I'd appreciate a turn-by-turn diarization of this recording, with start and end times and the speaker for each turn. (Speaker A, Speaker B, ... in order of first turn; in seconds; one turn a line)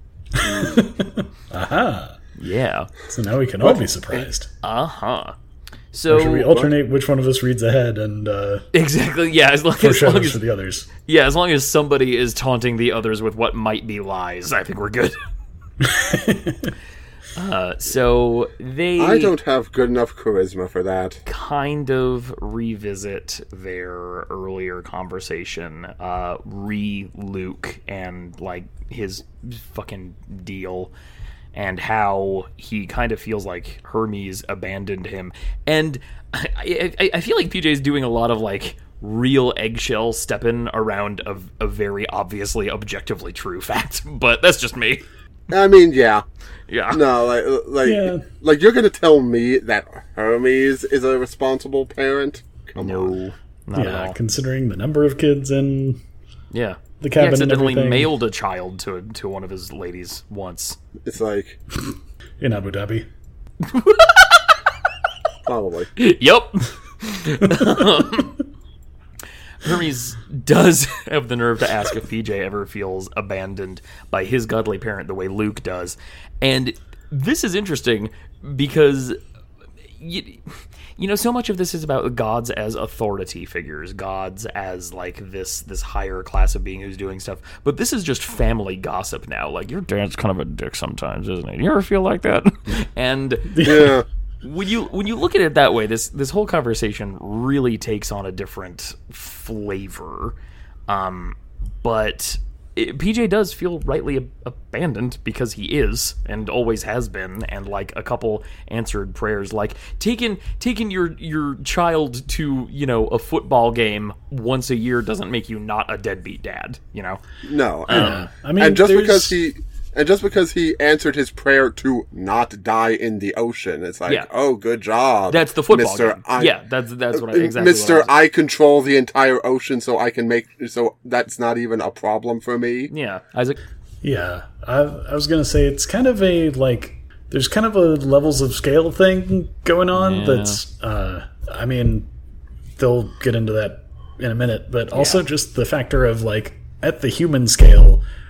Speaker A: 0.3-2.2
Speaker B: 0.4-0.9
Speaker C: 2.4-2.9
Speaker A: 3.1-4.5
Speaker B: 3.6-4.3
Speaker C: 4.6-5.3
Speaker C: 5.9-6.6
Speaker A: 6.1-8.7
Speaker C: 8.7-10.4
Speaker A: 9.8-10.9
Speaker C: 11.0-15.2
Speaker A: 15.8-16.7
Speaker C: 17.4-19.3
Speaker B: 19.0-21.2
Speaker C: 21.3-30.9
Speaker C: 31.5-45.0
Speaker B: 45.5-46.2
Speaker C: 46.7-47.0
Speaker B: 46.9-53.1
Speaker A: 47.8-48.2
Speaker C: 52.8-54.2
Speaker A: 53.7-56.0
Speaker C: 56.5-60.8
Speaker A: 57.0-58.1
Speaker B: 61.0-61.6
Speaker A: 62.4-63.1
Speaker C: 63.6-64.6
Speaker B: 65.5-65.9
Speaker C: 66.0-68.4
Speaker C: 69.6-79.2
Speaker C: 80.0-93.9
Speaker A: 93.5-93.9
Speaker B: 93.6-94.0
Speaker C: 94.4-100.3
Speaker C: 100.9-117.2
Speaker B: 117.4-126.5
Speaker C: 117.9-118.3
Speaker A: 117.9-119.4
Speaker C: 125.3-128.1
Speaker B: 127.1-132.9
Speaker C: 132.9-133.6
Speaker A: 134.0-142.1
Speaker C: 139.9-140.6
Speaker A: 142.8-148.0
Speaker C: 144.9-145.2